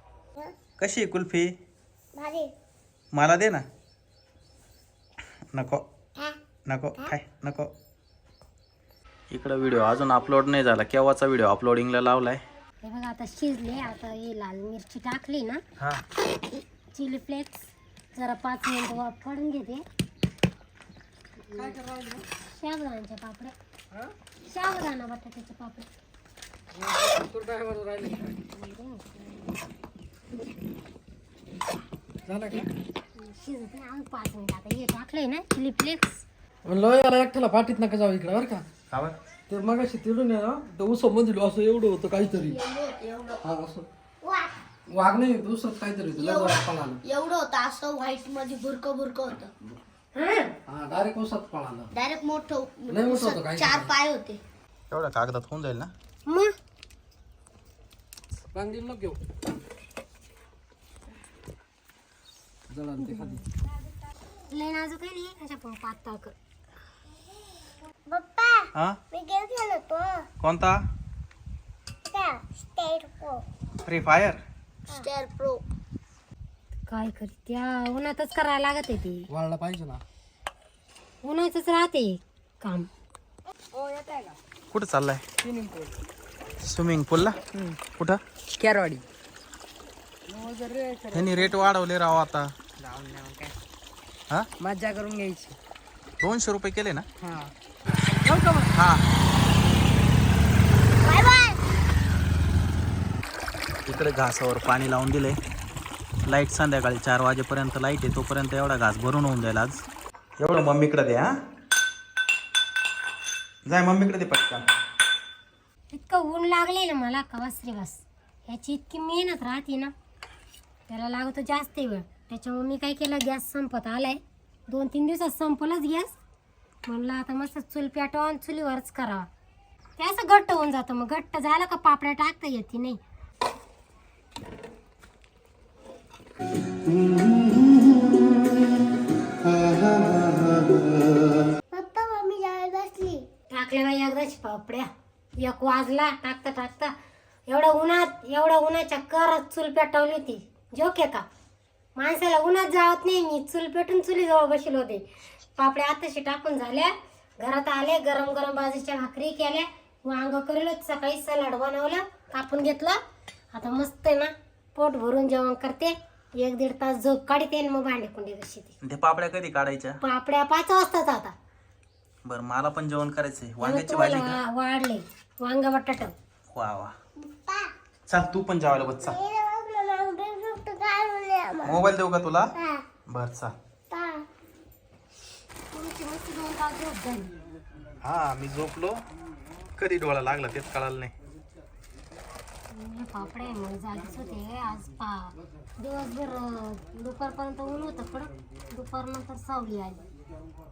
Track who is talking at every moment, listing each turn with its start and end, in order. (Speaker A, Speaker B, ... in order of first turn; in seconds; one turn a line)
Speaker A: 0.8-1.5
Speaker B: 2.1-2.5
Speaker A: 3.1-3.6
Speaker A: 5.5-5.8
Speaker A: 6.7-7.7
Speaker A: 9.3-12.4
Speaker C: 12.8-15.6
Speaker C: 16.9-19.8
Speaker C: 21.5-21.8
Speaker D: 21.5-22.2
Speaker C: 22.4-23.5
Speaker C: 24.4-25.9
Speaker D: 26.7-28.3
Speaker C: 28.5-29.3
Speaker D: 32.2-32.7
Speaker C: 33.2-36.2
Speaker D: 36.6-38.6
Speaker A: 38.9-39.2
Speaker D: 39.5-42.6
Speaker B: 42.5-43.4
Speaker D: 43.4-43.9
Speaker B: 44.2-44.5
Speaker D: 44.9-47.0
Speaker B: 46.2-49.5
Speaker C: 50.1-50.5
Speaker D: 50.7-51.9
Speaker B: 51.9-54.4
Speaker D: 52.9-53.9
Speaker A: 54.9-55.9
Speaker C: 56.3-56.5
Speaker D: 58.5-59.2
Speaker D: 62.7-63.4
Speaker C: 63.0-63.4
Speaker C: 64.5-66.3
Speaker B: 68.1-70.3
Speaker A: 70.4-70.8
Speaker B: 72.1-73.4
Speaker A: 73.8-74.4
Speaker B: 74.9-75.6
Speaker C: 76.9-79.3
Speaker D: 79.3-80.0
Speaker C: 81.2-82.9
Speaker E: 83.8-84.4
Speaker A: 84.7-85.2
Speaker E: 85.4-85.9
Speaker A: 86.6-87.4
Speaker A: 87.9-88.2
Speaker E: 88.6-89.0
Speaker E: 90.3-91.5
Speaker A: 91.1-92.5
Speaker E: 92.8-93.5
Speaker E: 94.6-95.5
Speaker A: 96.2-97.0
Speaker E: 97.2-97.5
Speaker A: 98.7-99.0
Speaker B: 101.0-101.6
Speaker A: 103.9-105.4
Speaker A: 106.2-109.8
Speaker A: 110.4-111.3
Speaker A: 113.7-114.7
Speaker C: 115.9-119.9
Speaker C: 120.9-126.2
Speaker C: 126.9-129.3
Speaker C: 130.0-133.0
Speaker B: 141.7-143.2
Speaker C: 143.5-146.9
Speaker C: 147.5-151.2
Speaker C: 151.9-155.0
Speaker C: 155.6-163.0
Speaker C: 163.5-168.7
Speaker A: 168.8-170.0
Speaker C: 170.0-171.3
Speaker A: 172.2-174.4
Speaker C: 173.6-176.1
Speaker A: 176.5-176.9
Speaker B: 177.2-177.7
Speaker A: 178.1-179.2
Speaker B: 179.1-181.8
Speaker A: 181.6-182.5
Speaker B: 182.6-182.8
Speaker A: 183.1-183.5
Speaker B: 183.9-184.2
Speaker C: 185.7-187.3
Speaker A: 188.0-189.0
Speaker A: 189.8-191.1
Speaker C: 192.7-200.0